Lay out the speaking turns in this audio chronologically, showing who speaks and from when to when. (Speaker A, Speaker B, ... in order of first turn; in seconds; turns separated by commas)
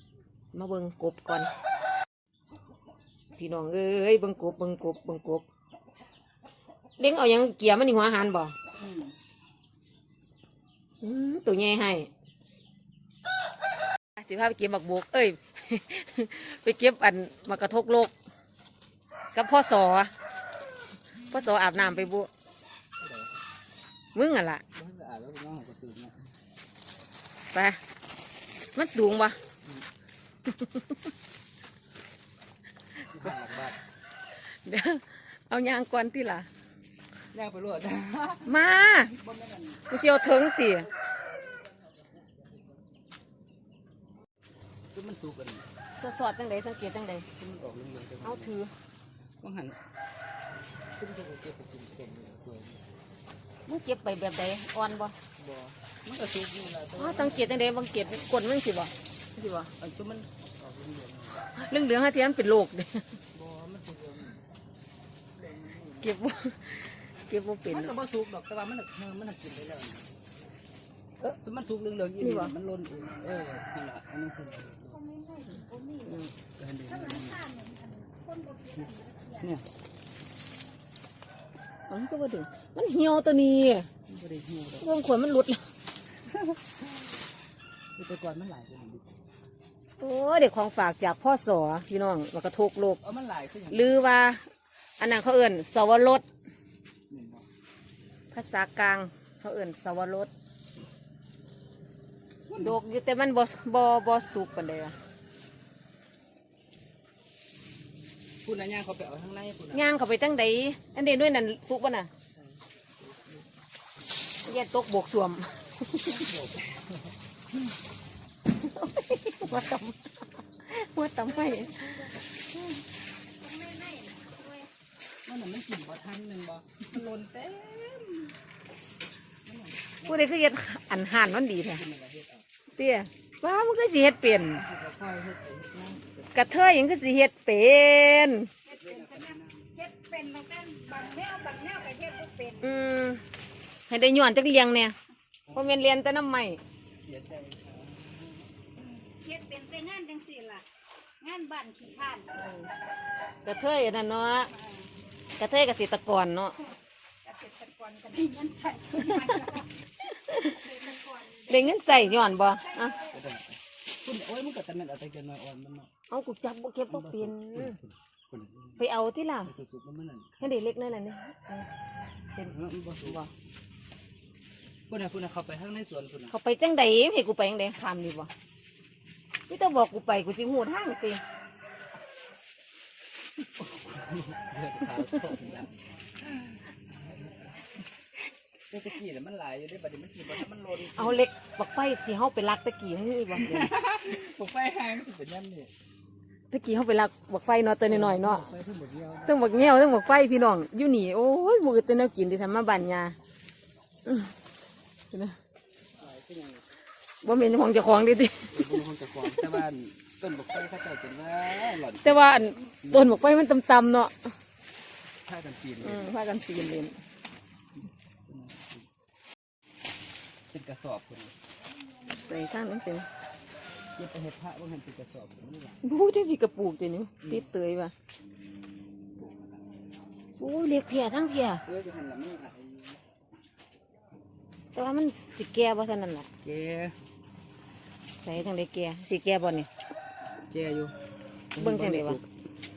Speaker A: 0.5-1.5, Speaker A: 3.3-5.4, Speaker A: 7.0-8.6, Speaker B: 8.8-9.1, Speaker A: 11.0-12.1, Speaker A: 14.2-18.1, Speaker A: 19.3-20.1, Speaker A: 21.2-22.3, Speaker B: 23.0-23.3, Speaker A: 24.1-24.6, Speaker B: 24.7-26.2, Speaker A: 27.5-27.8, Speaker A: 28.7-29.4, Speaker A: 30.5-31.0, Speaker B: 33.1-33.8, Speaker A: 34.5-36.5, Speaker B: 37.3-38.5, Speaker A: 38.4-39.1, Speaker B: 39.1-39.9, Speaker A: 39.9-40.9, Speaker B: 41.7-42.3, Speaker B: 44.9-45.6, Speaker A: 45.9-47.3, Speaker B: 47.4-48.5, Speaker A: 48.2-48.7, Speaker B: 49.4-49.8, Speaker B: 51.0-52.8, Speaker A: 53.6-55.1, Speaker B: 55.4-58.3, Speaker A: 57.0-59.7, Speaker B: 59.8-61.5, Speaker A: 61.5-63.2, Speaker B: 63.3-64.4, Speaker B: 65.3-66.1, Speaker A: 66.0-68.0, Speaker B: 67.6-70.1, Speaker B: 71.4-75.1, Speaker A: 72.2-72.5, Speaker C: 75.2-76.0, Speaker A: 76.0-76.3, Speaker B: 76.6-77.5, Speaker C: 77.2-79.3, Speaker B: 79.3-79.7, Speaker A: 81.9-83.9, Speaker B: 84.1-84.9, Speaker A: 84.8-85.7, Speaker B: 86.2-87.1, Speaker B: 88.0-89.1, Speaker A: 90.0-93.0, Speaker B: 93.0-94.0, Speaker A: 93.7-94.4, Speaker A: 95.0-96.2, Speaker B: 97.1-97.5, Speaker A: 98.3-100.3, Speaker B: 102.5-102.8, Speaker A: 102.6-105.0, Speaker B: 108.4-109.9, Speaker A: 109.7-112.1, Speaker B: 112.3-113.4, Speaker A: 114.4-116.1, Speaker B: 115.9-117.1, Speaker A: 118.5-122.2, Speaker B: 119.4-119.8, Speaker C: 123.3-124.7, Speaker B: 125.2-128.3, Speaker B: 129.4-130.3, Speaker A: 130.0-131.8, Speaker B: 131.6-132.4, Speaker A: 132.8-134.6, Speaker B: 134.5-136.5, Speaker A: 136.3-138.5, Speaker B: 138.7-139.7, Speaker C: 138.8-139.2, Speaker C: 139.8-142.6, Speaker A: 142.6-143.2, Speaker A: 143.9-144.9, Speaker B: 145.5-145.8, Speaker A: 145.5-146.6, Speaker B: 147.0-148.4, Speaker C: 149.0-150.6, Speaker C: 151.2-152.3, Speaker A: 152.4-152.7, Speaker A: 153.4-154.5, Speaker A: 155.4-156.6, Speaker C: 157.2-159.7, Speaker B: 159.0-159.5, Speaker A: 160.0-163.0, Speaker C: 160.7-161.5, Speaker B: 163.0-165.9, Speaker A: 166.1-167.8, Speaker B: 166.9-168.8, Speaker A: 168.8-169.5, Speaker B: 169.4-170.5, Speaker A: 170.4-171.7, Speaker B: 172.4-173.2, Speaker B: 174.9-176.3, Speaker A: 176.3-178.3, Speaker A: 179.5-181.2, Speaker B: 183.6-186.6, Speaker B: 188.7-191.2, Speaker A: 190.8-193.7, Speaker B: 193.3-195.7, Speaker A: 196.5-198.5, Speaker B: 197.8-199.4, Speaker A: 199.2-203.2, Speaker A: 204.0-204.3, Speaker A: 205.1-205.4, Speaker B: 206.0-206.6, Speaker A: 207.2-208.8, Speaker B: 208.5-213.3, Speaker A: 209.3-209.6, Speaker A: 211.6-214.3, Speaker B: 215.2-216.1, Speaker A: 215.8-217.0, Speaker B: 217.8-218.9, Speaker B: 220.5-221.3, Speaker A: 222.1-223.1, Speaker B: 223.9-225.8, Speaker A: 225.8-227.9, Speaker A: 230.4-231.6, Speaker B: 231.7-233.0, Speaker A: 234.7-236.3, Speaker B: 236.4-236.9, Speaker A: 238.2-239.7, Speaker B: 240.5-240.9, Speaker B: 241.5-242.3, Speaker A: 241.6-242.2